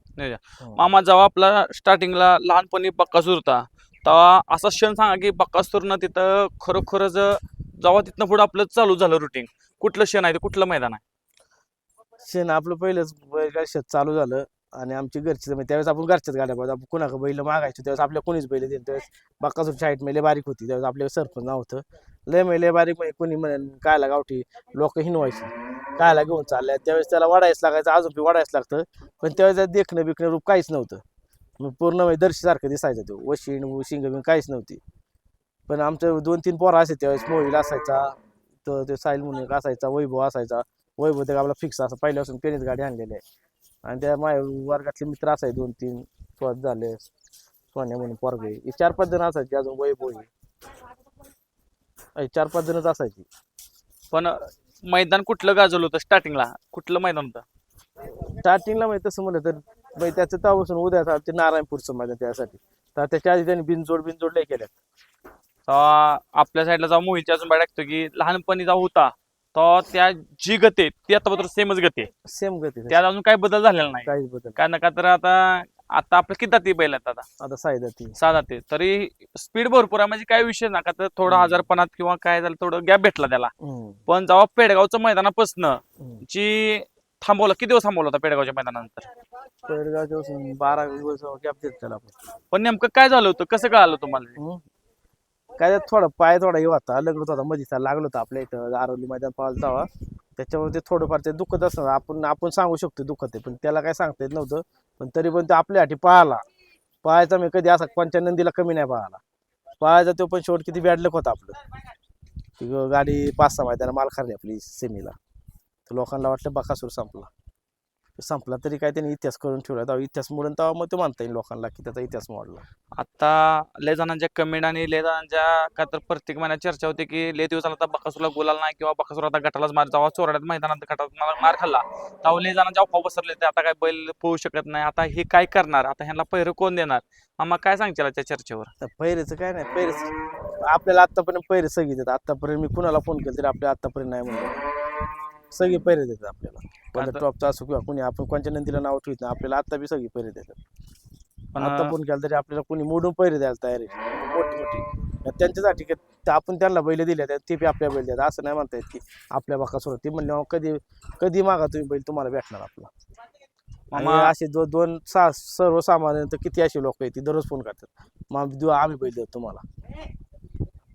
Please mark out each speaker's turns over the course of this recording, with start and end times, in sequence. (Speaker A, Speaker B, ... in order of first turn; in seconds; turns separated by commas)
Speaker A: 0.2-11.0, Speaker B: 0.6-0.9, Speaker B: 12.2-31.0, Speaker B: 31.6-34.8, Speaker B: 35.7-43.2, Speaker B: 43.8-47.0, Speaker B: 47.7-50.3, Speaker B: 52.2-53.2, Speaker A: 54.1-57.4, Speaker B: 58.2-64.8, Speaker A: 65.7-72.1, Speaker B: 72.2-73.0, Speaker A: 72.9-77.2, Speaker B: 74.0-74.6, Speaker B: 77.4-78.2, Speaker A: 78.2-83.5, Speaker B: 81.2-81.7, Speaker B: 83.6-84.0, Speaker A: 84.1-89.1, Speaker B: 89.7-92.2, Speaker A: 92.5-94.4, Speaker B: 94.4-94.6, Speaker B: 95.6-106.4, Speaker B: 107.0-109.2, Speaker B: 109.8-111.6, Speaker B: 112.6-115.1, Speaker B: 115.9-117.3, Speaker B: 118.2-122.6, Speaker A: 123.0-138.7, Speaker B: 138.8-140.1, Speaker B: 140.6-144.6, Speaker B: 145.5-150.6, Speaker A: 146.9-147.2, Speaker A: 151.5-151.9, Speaker B: 151.6-162.9, Speaker A: 163.9-164.3, Speaker B: 163.9-169.6